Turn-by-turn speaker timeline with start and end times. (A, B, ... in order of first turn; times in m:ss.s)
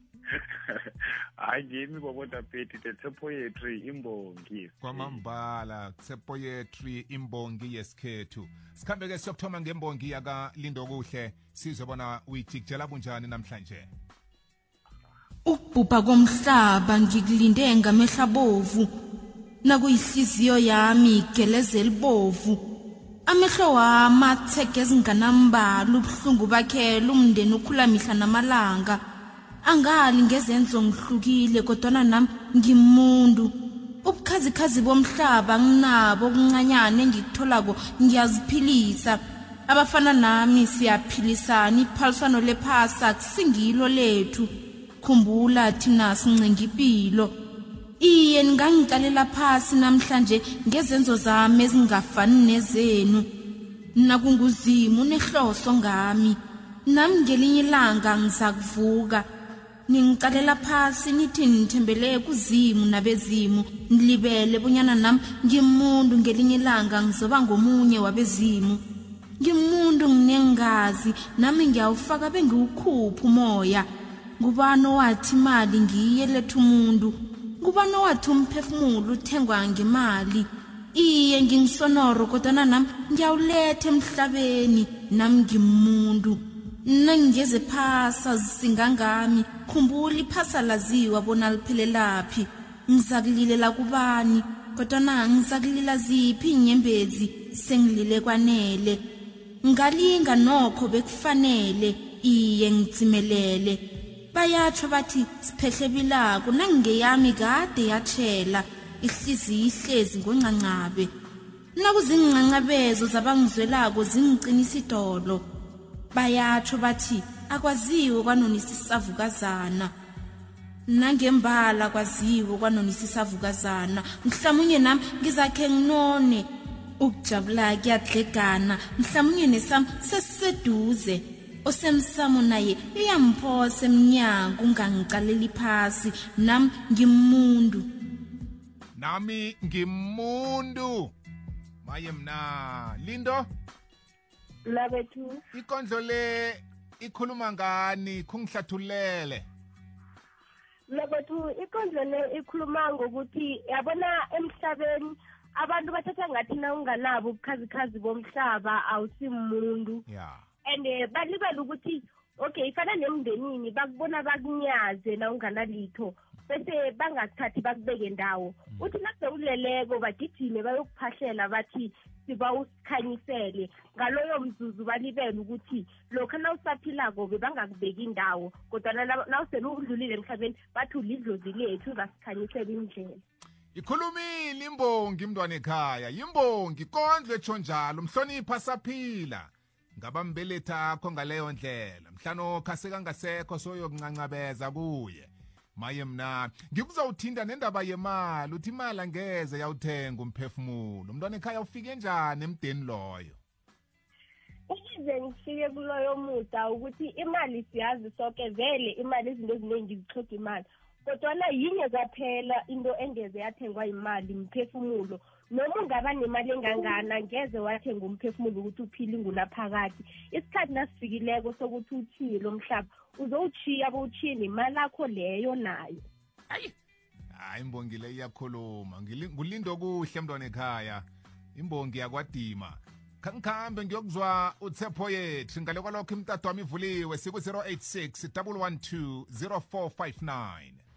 0:00.3-0:05.2 A
0:04.8-0:13.9 B
0:15.4-0:18.9 C
0:19.6-0:22.6 C
0:23.3-0:29.0 C
0:29.6-0:33.5 C
0:34.0-0:44.5 C
0:45.0-0:47.3 C
0:48.0-0:53.2 C
0:54.0-0:59.3 C
0:59.9-1:08.8 C
1:09.4-1:13.9 C
1:14.4-1:39.0 C
1:39.6-1:43.8 C
1:44.3-1:51.1 C
1:51.8-1:55.4 C
1:56.1-1:59.9 C
2:00.9-2:06.5 C
2:07.0-2:17.9 C
2:18.9-2:21.1 B
2:21.8-2:23.5 B
2:24.7-2:25.3 D
2:25.5-2:29.5 B
2:30.9-2:40.0 D
2:40.1-2:40.4 B
2:40.7-3:03.0 D
3:03.7-3:23.4 B
3:24.7-3:45.9 D
3:47.3-4:00.8 B